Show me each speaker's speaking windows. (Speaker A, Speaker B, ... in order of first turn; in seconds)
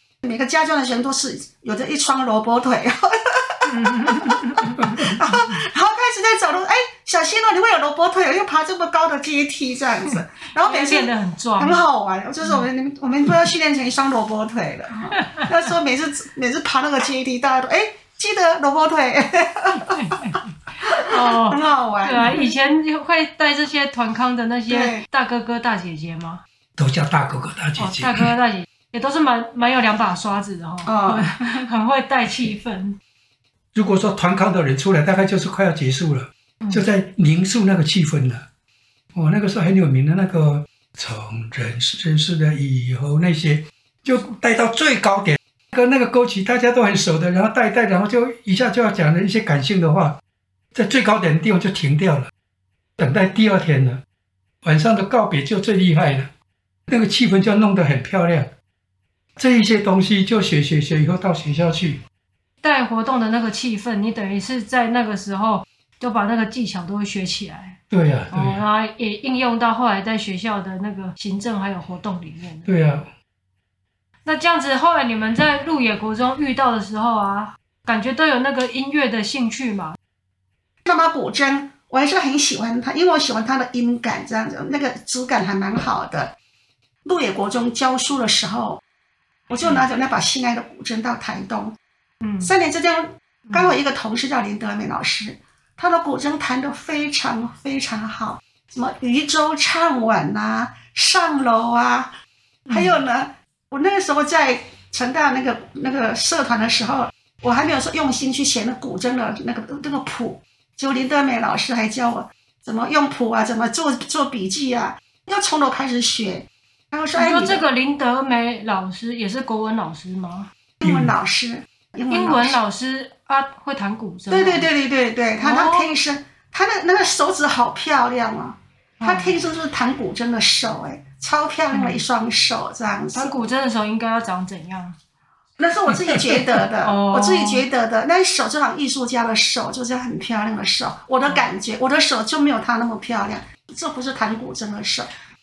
Speaker A: 0.2-20.0, 20.9-22.5, 24.7-25.1, 30.9-31.7, 80.8-86.3, 87.0-88.8, 89.5-91.7, 92.4-102.1, 102.7-117.7, 120.8-122.6, 124.3-133.5, 135.6-145.1
Speaker B: 3.6-5.4, 10.6-11.8, 19.8-20.5, 21.0-26.4, 27.8-33.0, 62.6-67.8, 68.3-72.7, 74.2-80.0, 92.2-92.5, 93.5-93.8, 102.7-103.0, 117.2-120.5, 122.1-124.7, 125.4-126.0, 129.0-129.4, 131.7-132.0, 133.1-135.0, 136.8-137.7
Speaker C: 26.8-28.3, 33.7-38.4, 39.1-50.2, 50.7-52.3, 53.0-54.0, 54.6-56.3, 56.9-58.5, 59.4-62.0, 67.9-68.6, 72.7-73.1, 120.8-121.1